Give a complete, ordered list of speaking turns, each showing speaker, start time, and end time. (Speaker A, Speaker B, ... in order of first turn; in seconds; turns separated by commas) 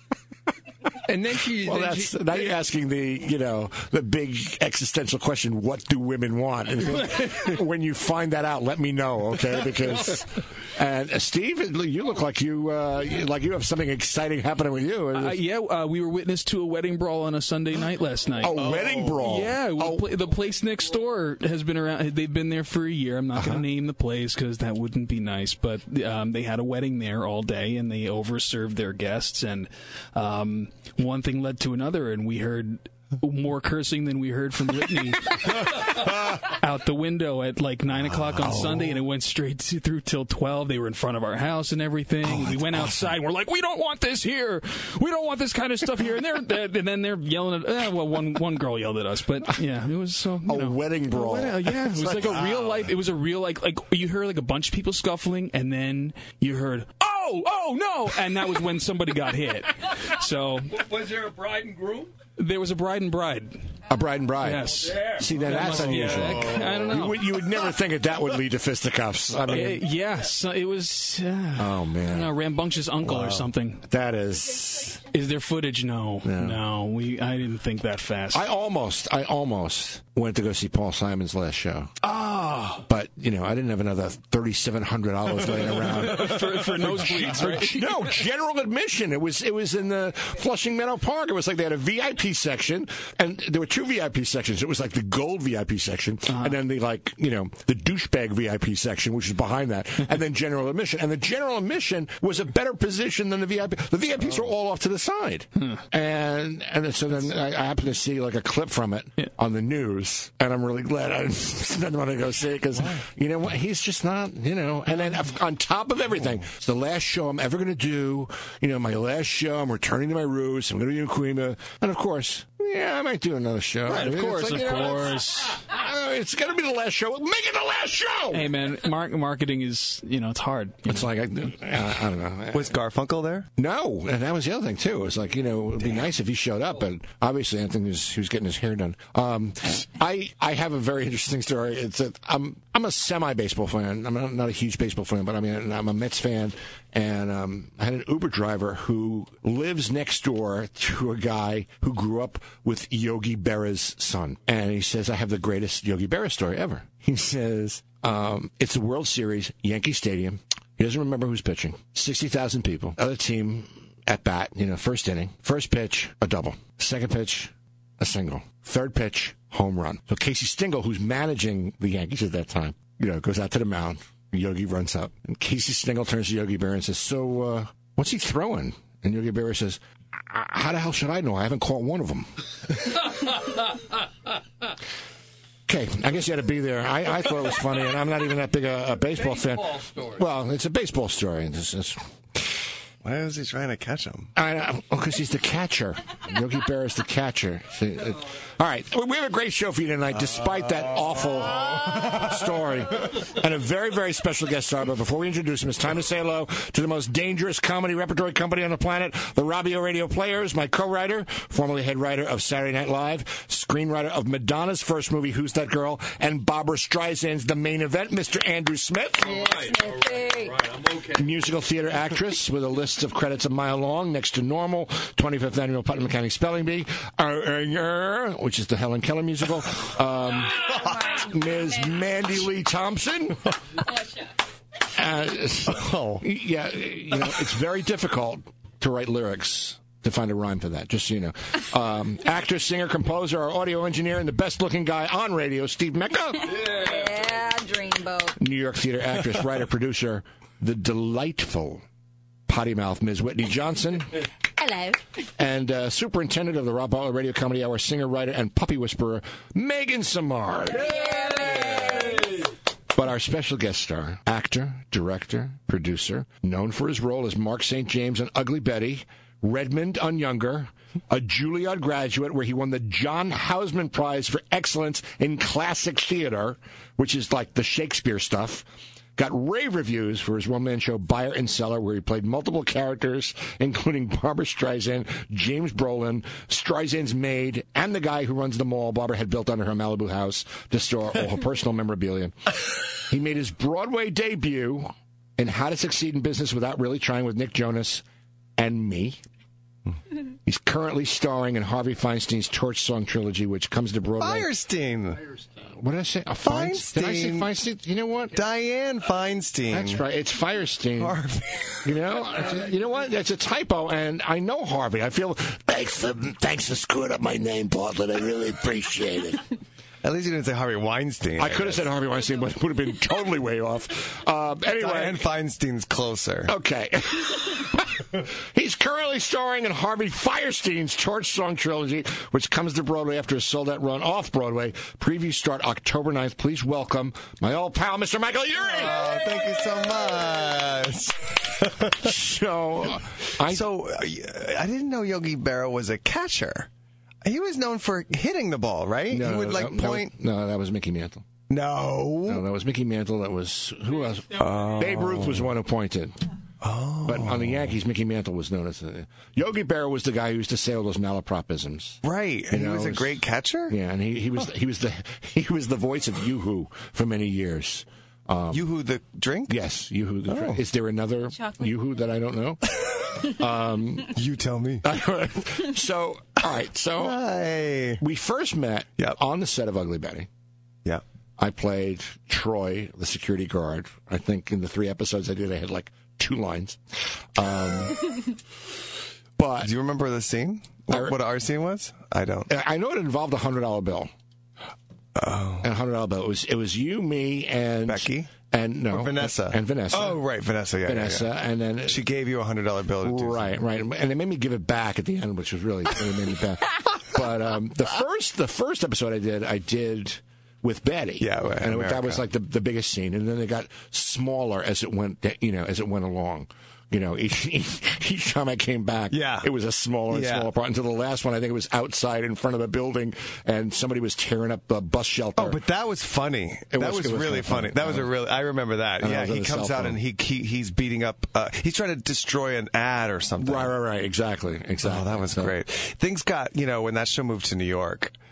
Speaker A: 0.9-2.4, Speaker B: 1.6-15.4, Speaker C: 15.1-60.8, Speaker B: 18.4-20.1, Speaker D: 18.5-19.2, Speaker B: 23.3-23.6, Speaker B: 38.4-38.8, Speaker B: 42.2-43.1, Speaker B: 50.4-52.5, Speaker A: 60.7-62.1, Speaker C: 62.4-63.7, Speaker B: 63.9-69.8, Speaker C: 64.4-67.4, Speaker A: 64.8-67.0, Speaker C: 69.5-73.8, Speaker B: 71.5-72.3, Speaker B: 73.0-75.0, Speaker C: 75.0-78.5, Speaker B: 76.2-76.6, Speaker B: 78.3-81.9, Speaker A: 82.0-82.8, Speaker B: 82.8-128.5, Speaker C: 85.8-88.0, Speaker C: 96.3-96.6, Speaker A: 123.9-124.8, Speaker C: 123.9-125.5, Speaker C: 128.3-131.1, Speaker B: 130.8-132.7, Speaker D: 132.5-133.5, Speaker B: 133.6-182.3, Speaker B: 185.7-192.4, Speaker A: 189.6-190.1, Speaker D: 193.0-194.3, Speaker B: 194.3-219.5, Speaker A: 219.3-221.2, Speaker E: 219.5-220.5, Speaker B: 221.1-233.5, Speaker B: 234.9-246.7, Speaker D: 235.7-236.2, Speaker E: 246.5-248.4, Speaker B: 248.4-251.8, Speaker B: 252.5-254.2, Speaker E: 254.6-255.0, Speaker B: 255.3-260.9, Speaker E: 260.8-262.2, Speaker B: 262.9-298.0, Speaker B: 298.6-299.2, Speaker B: 300.4-304.5, Speaker D: 304.2-305.2, Speaker B: 305.7-308.4, Speaker D: 306.4-307.5, Speaker D: 308.3-310.0, Speaker B: 309.7-311.2, Speaker D: 311.0-312.0, Speaker B: 311.8-319.4, Speaker D: 320.0-321.8, Speaker B: 321.4-325.2, Speaker D: 324.8-326.5, Speaker B: 326.5-339.0, Speaker D: 338.7-342.1, Speaker B: 342.0-343.6, Speaker D: 343.4-346.7, Speaker D: 347.2-350.1, Speaker B: 349.1-351.2, Speaker D: 351.5-352.4, Speaker B: 352.3-356.2, Speaker D: 354.4-355.5, Speaker D: 356.6-357.7, Speaker B: 357.0-368.7, Speaker D: 362.0-363.8, Speaker D: 368.5-369.6, Speaker B: 369.5-374.1, Speaker D: 370.3-370.6, Speaker D: 374.1-374.9, Speaker B: 374.8-377.2, Speaker D: 377.0-378.0, Speaker B: 378.0-380.3, Speaker B: 381.4-386.8, Speaker B: 387.3-388.4, Speaker B: 389.4-389.7, Speaker D: 389.6-392.5, Speaker B: 390.9-391.1, Speaker B: 392.5-394.1, Speaker D: 395.1-395.7, Speaker B: 395.6-400.2, Speaker D: 397.8-398.3, Speaker D: 398.9-401.3, Speaker B: 400.8-402.0, Speaker D: 401.8-403.5, Speaker B: 403.0-425.6, Speaker D: 411.2-412.2, Speaker D: 419.1-419.5, Speaker D: 420.1-420.5, Speaker D: 425.4-433.7, Speaker B: 426.7-428.1, Speaker B: 429.0-430.0, Speaker B: 433.4-435.5, Speaker D: 434.8-438.1